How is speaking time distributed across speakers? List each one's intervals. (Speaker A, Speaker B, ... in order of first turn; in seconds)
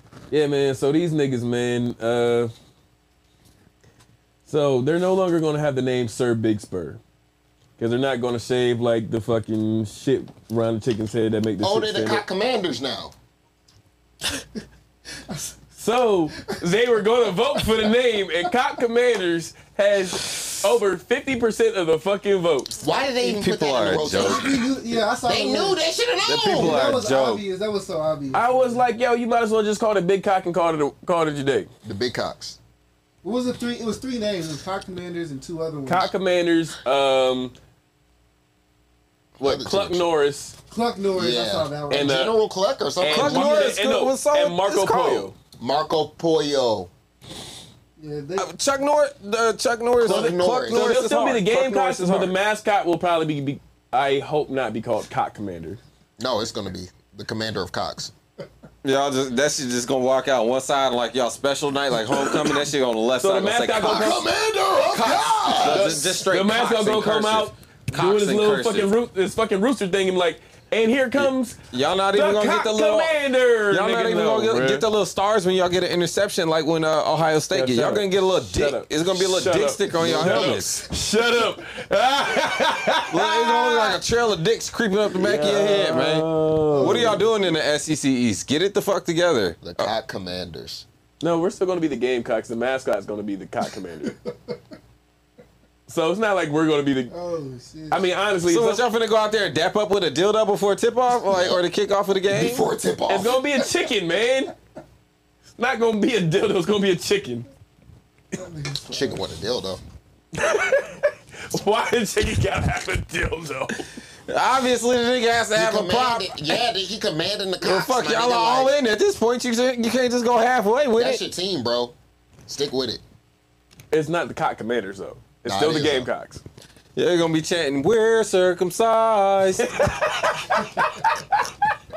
Speaker A: 0.3-2.5, 4.5-7.0, 7.8-12.2, 15.8-22.8, 28.3-31.7, 35.9-37.5, 39.4-40.5, 41.9-42.3, 43.0-45.3, 50.1-55.8, 63.2-64.2, 65.6-71.6, 72.1-74.8, 77.5-84.0, 85.1-87.3, 91.2-94.1, 95.9-97.1, 97.9-98.8, 103.1-104.5, 105.6-107.5, 110.3-113.8, 123.9-126.4, 129.7-131.4
Speaker B: 11.6-13.1, 22.8-26.8, 31.8-32.6, 39.4-40.0, 41.1-43.7, 45.6-46.9, 50.0-50.9, 56.2-58.1, 63.8-66.2, 79.9-80.9, 89.6-90.8, 101.3-101.6, 102.3-103.4, 108.9-109.8, 115.5-118.8, 121.0-121.9, 122.5-123.0, 125.4-126.1
Speaker C: 15.3-15.6, 17.6-17.9, 24.1-25.8, 26.5-28.8, 33.2-36.1, 40.7-42.1, 48.0-48.5, 86.7-87.5, 94.0-94.6, 97.1-98.0, 108.3-109.2
Speaker D: 23.2-24.4, 26.2-27.4, 43.1-45.3, 48.4-52.3, 58.8-64.2, 64.9-68.9, 71.2-73.2, 73.7-80.8, 83.1-89.9, 98.5-102.6, 114.3-116.5, 117.6-121.2, 127.0-129.8